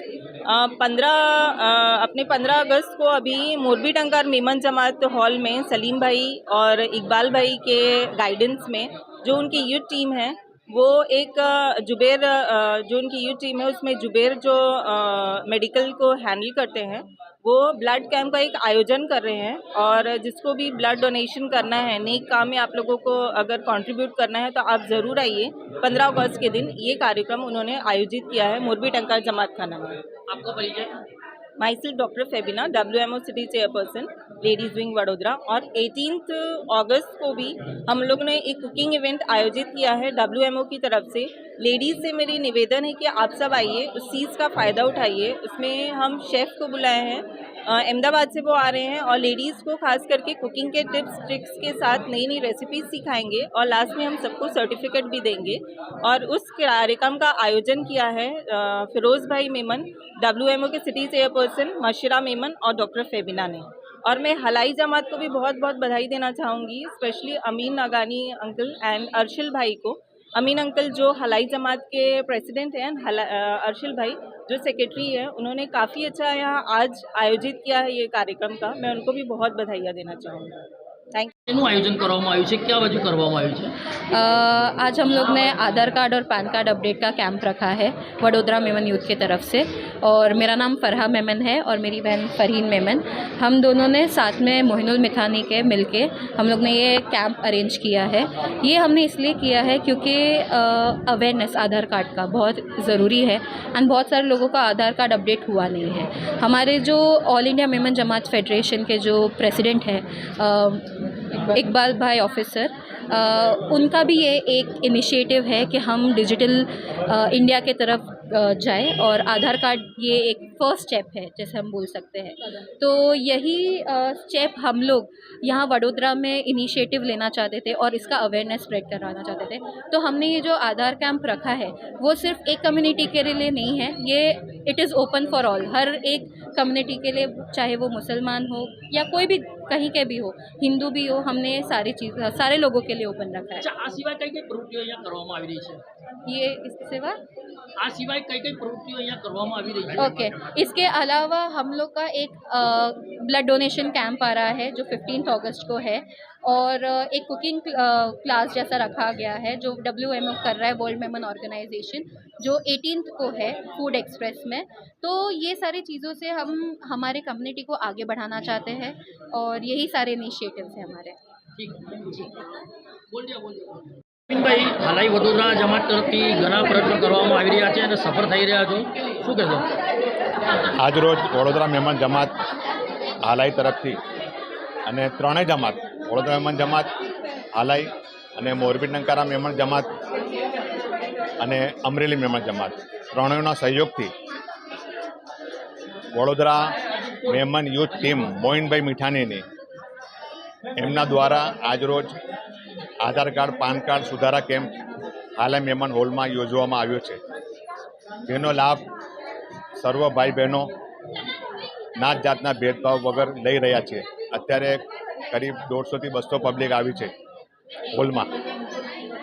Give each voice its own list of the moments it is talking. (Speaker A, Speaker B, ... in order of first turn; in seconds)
Speaker A: 0.5-30.0, 31.6-80.6
Speaker B: 30.3-31.0, 81.5-83.7, 143.6-145.8, 147.8-150.2, 171.6-172.3, 173.1-179.7
Speaker C: 84.1-110.9, 111.5-143.6, 146.3-147.2, 150.0-171.2
Speaker D: 180.8-182.4, 183.2-184.0, 184.8-186.9, 187.5-189.9, 191.4-194.1, 196.1-199.4, 200.8-202.1, 203.0-204.8, 205.4-207.2, 208.2-208.9, 209.8-210.7, 212.0-217.1, 217.9-218.3